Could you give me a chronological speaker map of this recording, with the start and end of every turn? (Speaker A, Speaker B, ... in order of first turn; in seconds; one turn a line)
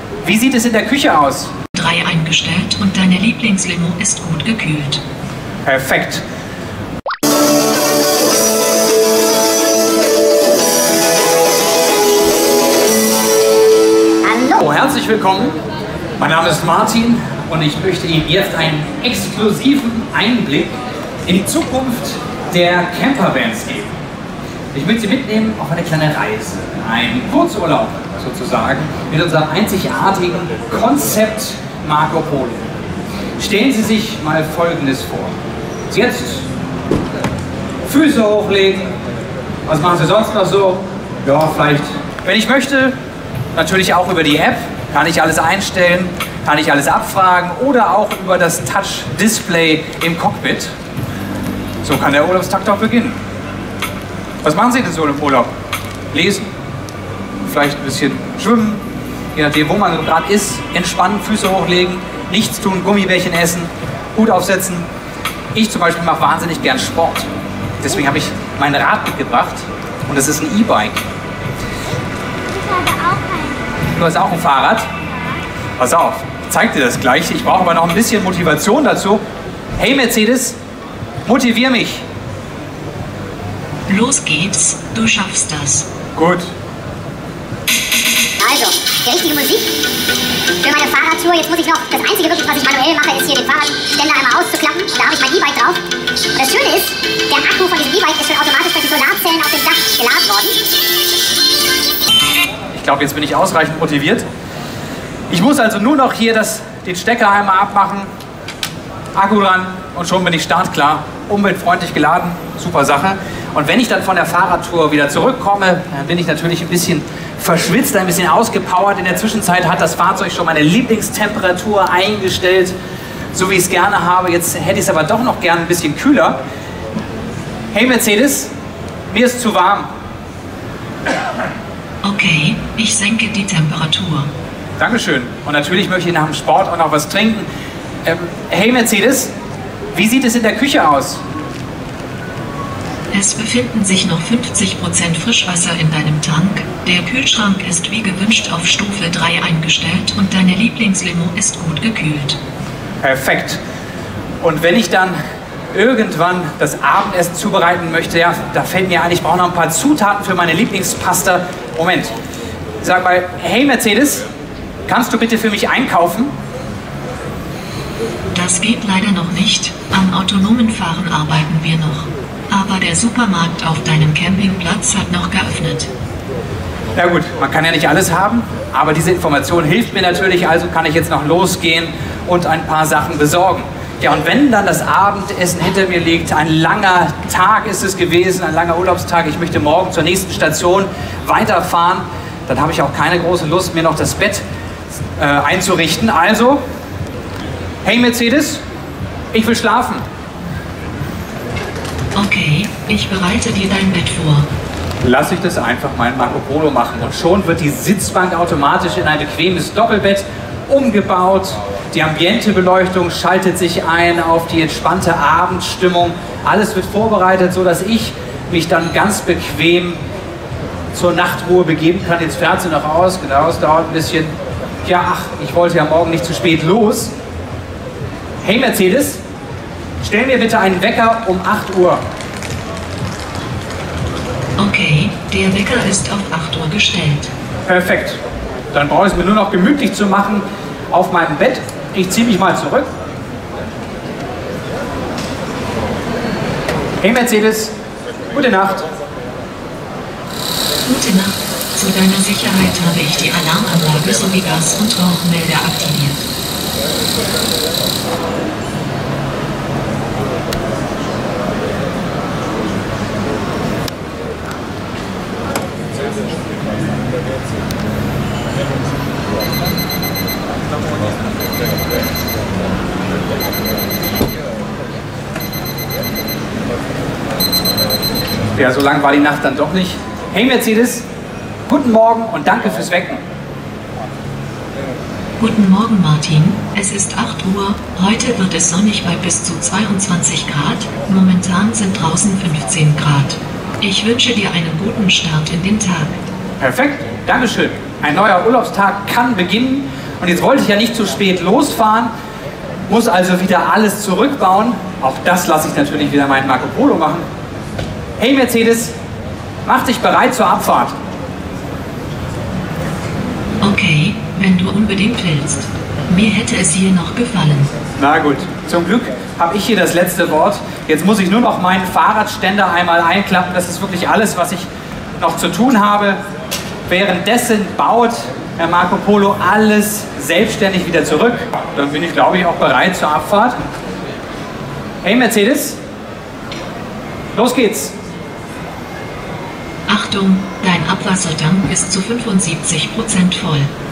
Speaker A: 0.2-1.5
Speaker B: 1.7-5.0
Speaker A: 5.6-6.2
Speaker A: 14.4-15.6
Speaker A: 16.2-23.9
Speaker A: 24.7-32.7
Speaker A: 33.4-35.3
Speaker A: 35.9-36.5
Speaker A: 37.8-38.9
Speaker A: 39.7-42.9
Speaker A: 43.5-50.7
Speaker A: 51.8-53.2
Speaker A: 54.4-55.5
Speaker A: 56.1-56.5
Speaker A: 57.4-58.8
Speaker A: 59.3-64.9
Speaker A: 65.5-67.3
Speaker A: 67.8-71.0
Speaker C: 72.7-73.5
Speaker A: 73.9-74.9
Speaker A: 75.8-79.2
Speaker A: 79.8-80.6
Speaker A: 81.2-82.0
Speaker B: 83.9-85.9
Speaker A: 86.1-86.5
Speaker C: 88.4-89.7
Speaker C: 90.6-100.6
Speaker A: 102.7-104.2
Speaker A: 105.3-108.1
Speaker A: 109.1-122.7
Speaker A: 123.3-126.4
Speaker A: 127.7-128.5
Speaker A: 129.1-129.9
Speaker B: 132.0-134.3
Speaker A: 134.8-137.5
Speaker A: 138.0-139.3
Speaker A: 139.9-141.2
Speaker B: 143.1-152.4
Speaker A: 153.0-153.6
Speaker A: 154.4-155.2
Speaker A: 155.7-162.1
Speaker A: 162.8-164.2
Speaker A: 164.9-166.3
Speaker B: 168.3-175.9
Speaker A: 176.9-194.4
Speaker A: 195.2-196.6
Speaker A: 197.8-198.6
Speaker A: 199.3-200.0
Speaker B: 202.2-204.5
Speaker A: 205.0-220.0
Speaker A: 220.9-224.3
Speaker A: 224.8-227.1
Speaker A: 228.4-229.2
Speaker A: 230.0-232.0
Speaker B: 234.6-237.3
Speaker A: 237.7-238.2
Speaker A: 238.7-242.9
Speaker A: 247.0-247.7
Speaker A: 248.3-248.9
Speaker B: 250.9-256.2
Speaker A: 278.5-281.0
Speaker A: 281.7-283.2
Speaker B: 285.4-296.2
Speaker A: 296.6-302.1
Speaker A: 302.9-307.2
Speaker A: 308.2-308.9
Speaker A: 309.6-310.9
Speaker B: 313.6-317.7
Speaker A: 318.0-324.7
Speaker A: 325.2-326.2
Speaker A: 326.9-333.6
Speaker A: 335.0-335.8
Speaker A: 337.3-337.9
Speaker B: 339.9-343.7